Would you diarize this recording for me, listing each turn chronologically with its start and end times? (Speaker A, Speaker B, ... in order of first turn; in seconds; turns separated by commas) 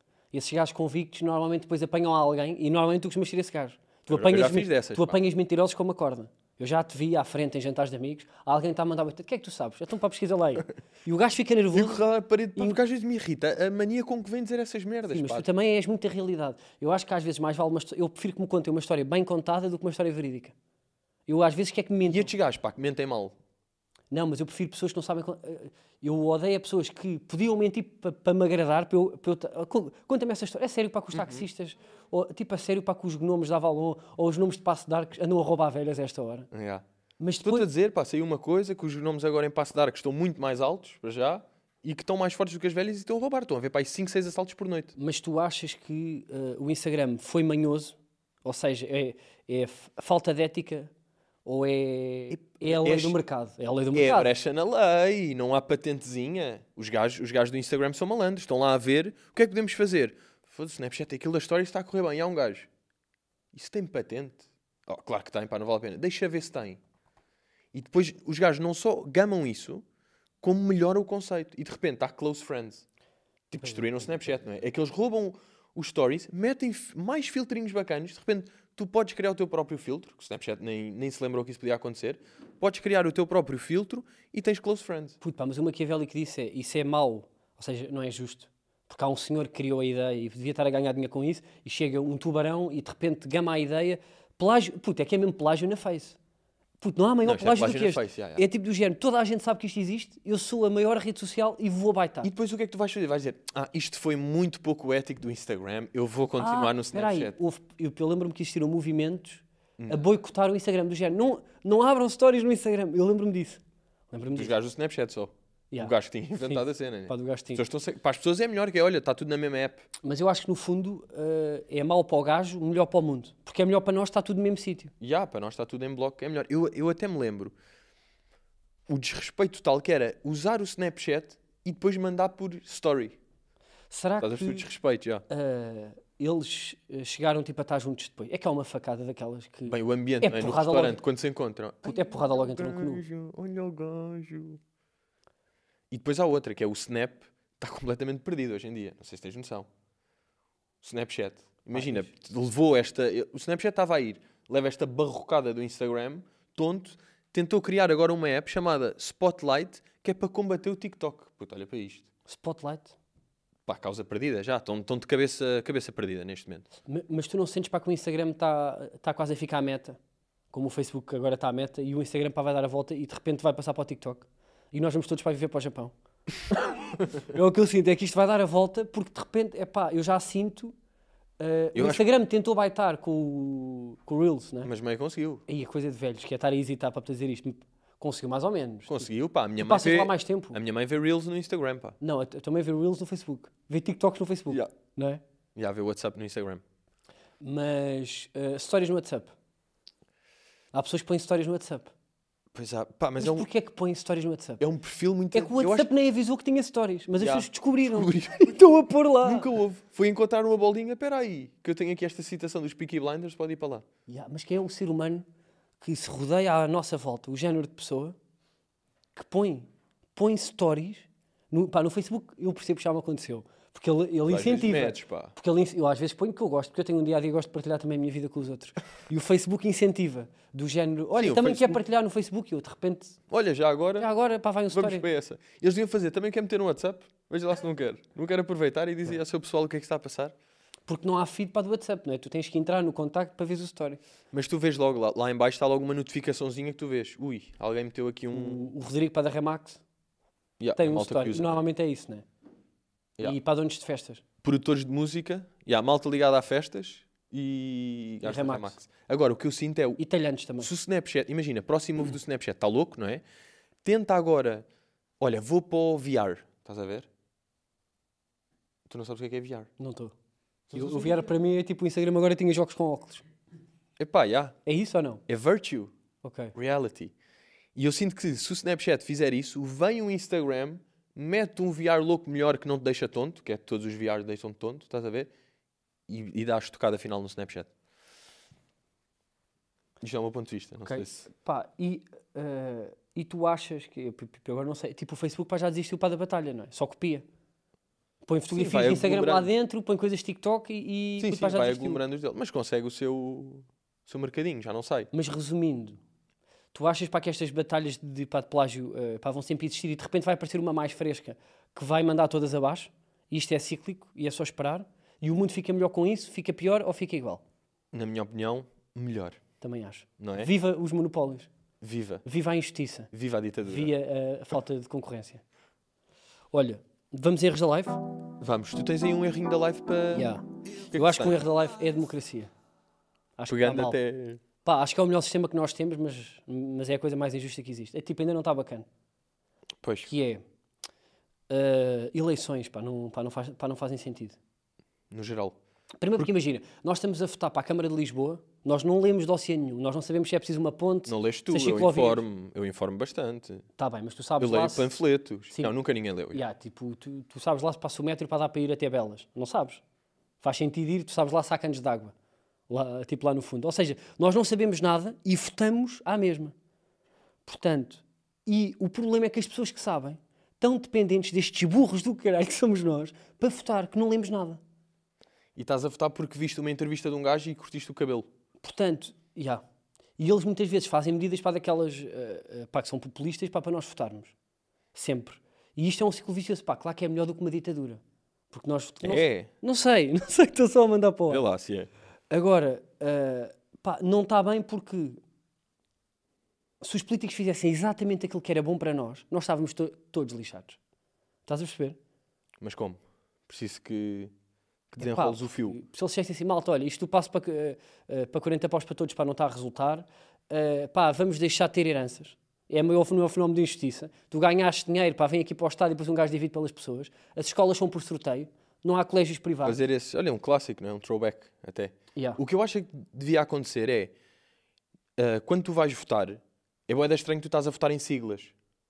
Speaker A: 0.3-12.0, Speaker B: 4.1-5.2, Speaker B: 11.7-15.5, Speaker A: 15.1-20.5, Speaker A: 21.3-22.3, Speaker B: 22.1-23.4, Speaker A: 24.1-36.5, Speaker B: 31.1-31.4, Speaker B: 36.5-36.9, Speaker A: 37.2-37.7, Speaker B: 37.4-44.9, Speaker A: 45.0-50.9, Speaker A: 51.5-54.4, Speaker B: 52.3-53.2, Speaker B: 53.9-62.7, Speaker B: 63.5-66.8, Speaker B: 67.7-69.8, Speaker B: 70.4-72.8, Speaker B: 73.5-85.2, Speaker A: 85.2-96.2, Speaker A: 96.8-102.3, Speaker B: 97.2-98.4, Speaker B: 102.2-107.4, Speaker A: 106.4-114.5, Speaker B: 109.8-110.1, Speaker B: 114.3-119.8, Speaker A: 115.7-117.6, Speaker A: 120.0-124.9, Speaker B: 125.0-127.5, Speaker B: 128.9-133.2, Speaker A: 133.9-134.7, Speaker B: 134.2-135.2, Speaker A: 135.3-141.0, Speaker B: 139.7-144.6, Speaker A: 141.8-143.1, Speaker B: 145.9-149.7, Speaker B: 150.8-162.1, Speaker A: 151.7-152.1, Speaker A: 162.3-163.0, Speaker B: 163.7-166.7, Speaker A: 166.9-170.0, Speaker A: 170.5-175.9, Speaker A: 176.5-180.7, Speaker A: 181.4-184.7, Speaker B: 181.8-182.1, Speaker B: 184.6-185.4, Speaker A: 185.5-189.1, Speaker B: 188.9-192.0, Speaker A: 189.6-190.6, Speaker A: 192.0-195.2, Speaker B: 195.6-196.6, Speaker A: 197.4-199.3, Speaker A: 200.7-201.9, Speaker B: 202.5-203.5, Speaker A: 203.2-204.6, Speaker B: 204.6-205.9, Speaker A: 205.3-209.5, Speaker B: 207.2-208.6, Speaker B: 209.2-213.8, Speaker A: 214.1-215.2, Speaker A: 215.8-218.2, Speaker A: 219.2-233.2, Speaker B: 224.3-225.3, Speaker B: 231.2-231.8, Speaker B: 233.3-234.1, Speaker A: 234.0-235.1, Speaker B: 234.7-240.3, Speaker A: 240.9-244.0, Speaker B: 244.3-248.7, Speaker A: 248.3-249.8, Speaker B: 250.6-251.6, Speaker A: 250.8-252.2, Speaker A: 253.2-254.2, Speaker B: 254.4-260.0, Speaker A: 258.2-258.8, Speaker A: 260.0-260.7, Speaker B: 260.6-263.2, Speaker B: 263.8-264.7, Speaker B: 265.2-267.1, Speaker B: 268.9-269.7, Speaker A: 269.8-270.1, Speaker B: 270.7-271.3, Speaker A: 270.7-273.2, Speaker B: 274.0-274.6, Speaker A: 274.6-275.2, Speaker B: 275.3-275.9, Speaker A: 276.2-276.5, Speaker B: 276.5-277.1, Speaker B: 277.8-285.3, Speaker B: 286.1-287.7, Speaker B: 290.0-291.3, Speaker A: 290.9-297.2, Speaker A: 298.3-302.0, Speaker B: 298.5-299.5, Speaker B: 301.2-305.1, Speaker A: 305.1-306.0, Speaker A: 306.7-317.4, Speaker B: 317.9-319.4, Speaker A: 319.6-321.5, Speaker B: 320.2-320.5, Speaker B: 321.8-322.2, Speaker A: 322.2-323.1, Speaker B: 323.1-323.9, Speaker A: 323.7-325.4, Speaker A: 326.5-328.0, Speaker B: 328.4-331.4, Speaker A: 330.1-332.5, Speaker A: 333.4-334.0, Speaker B: 333.5-334.4, Speaker A: 334.6-338.9, Speaker B: 339.8-340.1, Speaker A: 340.1-340.4, Speaker A: 341.5-344.4, Speaker B: 345.1-345.6, Speaker A: 346.0-352.2, Speaker B: 351.1-353.6, Speaker A: 353.8-354.9, Speaker B: 354.4-356.4, Speaker A: 356.3-359.8, Speaker A: 360.4-362.1, Speaker A: 362.7-366.5, Speaker A: 367.5-374.6, Speaker B: 375.6-378.3, Speaker A: 378.6-379.6, Speaker A: 380.2-384.3, Speaker A: 384.9-391.4, Speaker B: 389.0-389.5, Speaker B: 391.3-391.9, Speaker A: 392.3-395.2, Speaker A: 396.8-400.8, Speaker A: 401.5-402.0, Speaker B: 402.6-404.3, Speaker B: 404.9-405.8, Speaker A: 405.0-419.8, Speaker B: 419.6-424.1, Speaker A: 422.1-422.4, Speaker B: 425.2-428.5